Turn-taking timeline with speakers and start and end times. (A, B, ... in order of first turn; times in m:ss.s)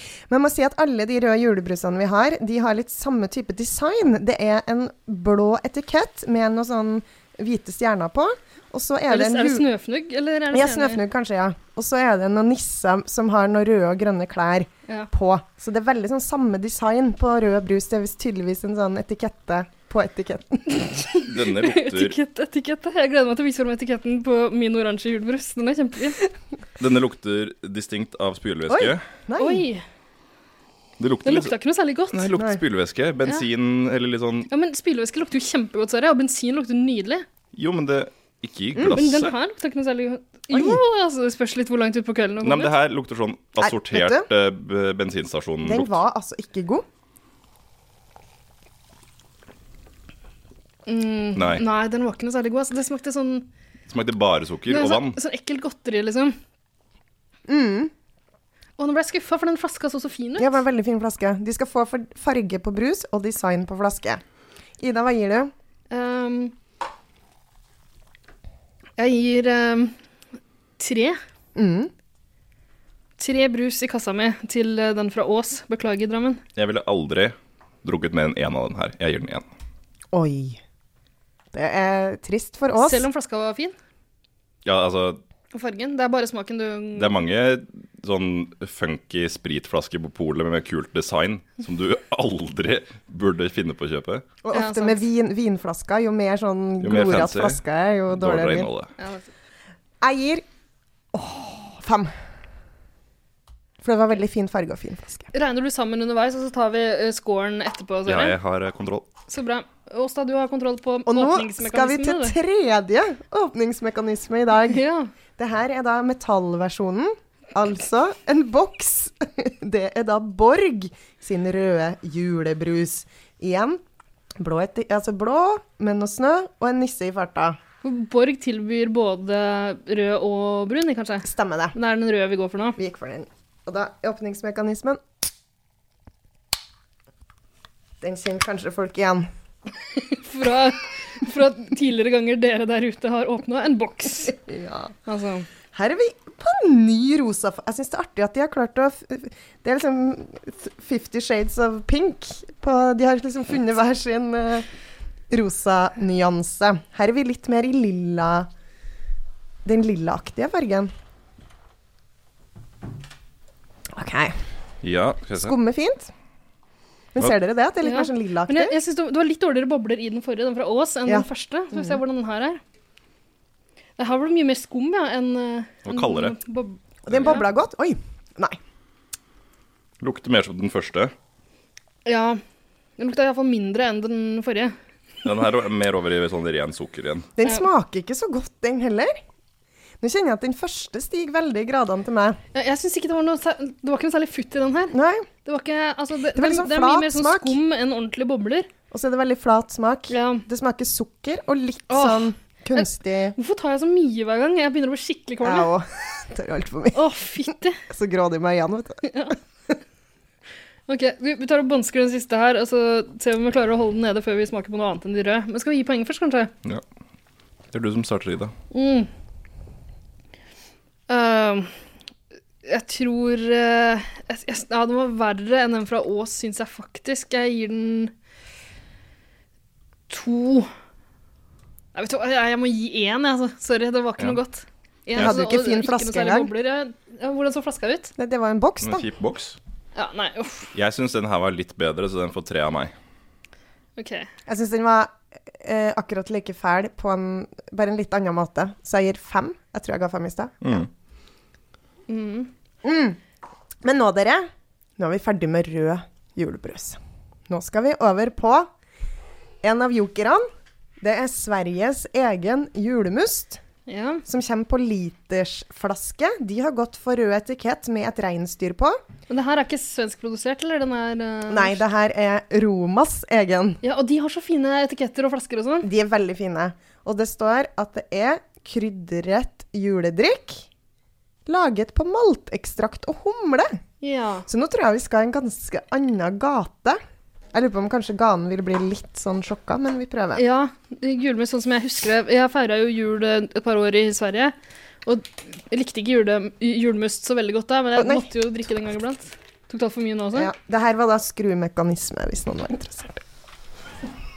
0:00.3-0:09.6 A
0:09.1-0:11.0 B
0:10.5-0:20.9 A
0:20.7-0:26.2 B
0:21.2-0:22.2 C
0:26.8-0:29.0 C
0:28.7-0:29.6 A
0:29.4-0:29.8 B
0:31.0-0:31.5 C
0:31.2-0:32.2 B
0:32.1-0:34.5 C
0:34.5-0:37.2 B
0:37.5-0:39.3 C
0:38.9-0:42.7 B
0:40.5-0:40.8 A
0:42.4-0:46.0 C
0:43.6-0:44.3 A
0:45.6-0:46.8 A
0:50.9-0:53.5 B
0:51.4-0:51.6 C
0:53.9-0:55.2 C
0:54.7-0:56.4 B
0:57.5-0:57.9 A
0:58.8-1:00.6 B
1:00.4-1:04.2 A
1:04.8-1:05.5 A
1:05.9-1:06.5 B
1:09.0-1:09.9 B
1:10.8-1:11.2 B
1:11.5-1:11.9 A
1:13.2-1:16.4 B
1:16.6-1:19.4 C
1:20.1-1:20.6 A
1:21.5-1:23.0 A
1:22.8-1:23.7 B
1:24.6-1:25.2 C
1:25.5-1:27.2 B
1:27.0-1:34.3 C
1:34.4-1:38.7 A
1:34.5-1:35.0 B
1:36.8-1:38.9 C
1:39.0-1:39.3 B
1:40.0-1:40.4 A
1:41.1-1:42.1 A
1:43.8-1:45.3 A
1:45.3-1:48.4 B
1:48.0-1:49.1 C
1:49.3-1:52.4 B
1:51.0-1:54.8 A
1:54.6-1:55.1 B
1:55.4-2:03.8 A
2:04.4-2:07.6 A
2:07.8-2:12.8 B
2:11.2-2:11.7 A
2:12.8-2:15.0 A
2:18.0-2:19.3 A
2:20.0-2:24.4 B
2:24.3-2:24.9 A
2:25.0-2:25.5 B
2:25.7-2:34.6 A
2:35.3-2:38.5 A
2:39.6-2:40.9 A
2:43.9-2:44.3 A
2:44.8-2:45.6 C
2:45.4-2:46.1 A
2:47.1-2:48.7 A
2:47.8-2:52.6 B
2:51.0-2:52.0 A
2:54.0-2:57.5 B
2:55.8-2:56.3 C
2:57.0-2:58.6 A
3:00.0-3:01.1 C
3:02.0-3:02.4 B
3:03.0-3:04.7 B
3:05.2-3:07.3 C
3:07.4-3:09.2 A
3:10.0-3:12.4 A
3:12.5-3:18.7 B
3:14.9-3:15.3 A
3:16.3-3:17.6 A
3:18.9-3:23.3 A
3:20.1-3:20.4 B
3:21.9-3:25.7 B
3:25.4-3:27.0 A
3:26.9-3:27.8 B
3:27.9-3:29.1 A
3:29.0-3:29.4 B
3:30.9-3:36.5 B
3:37.7-3:38.5 C
3:38.7-3:39.1 B
3:41.1-3:41.8 B
3:42.6-3:48.1 B
3:50.1-3:50.7 B
3:51.9-3:58.1 B
3:55.2-3:56.5 A
3:58.2-3:59.0 A
3:58.8-3:59.6 C
4:00.0-4:00.7 B
4:00.7-4:02.9 C
4:04.0-4:04.3 B
4:04.5-4:10.8 A
4:10.6-4:10.9 C
4:12.1-4:12.5 B
4:12.8-4:13.2 A
4:13.8-4:18.7 A
4:19.6-4:20.4 A
4:21.0-4:23.6 A
4:23.9-4:24.2 B
4:24.2-4:29.0 A
4:29.3-4:31.8 B
4:31.5-4:33.8 A
4:33.8-4:35.9 B
4:35.8-4:40.7 A
4:41.4-4:43.8 A
4:44.0-4:44.4 B
4:44.5-4:47.0 A
4:47.5-4:50.4 A
4:50.3-4:54.5 B
4:55.0-5:00.5 B
4:58.0-4:58.3 A
5:00.3-5:03.2 A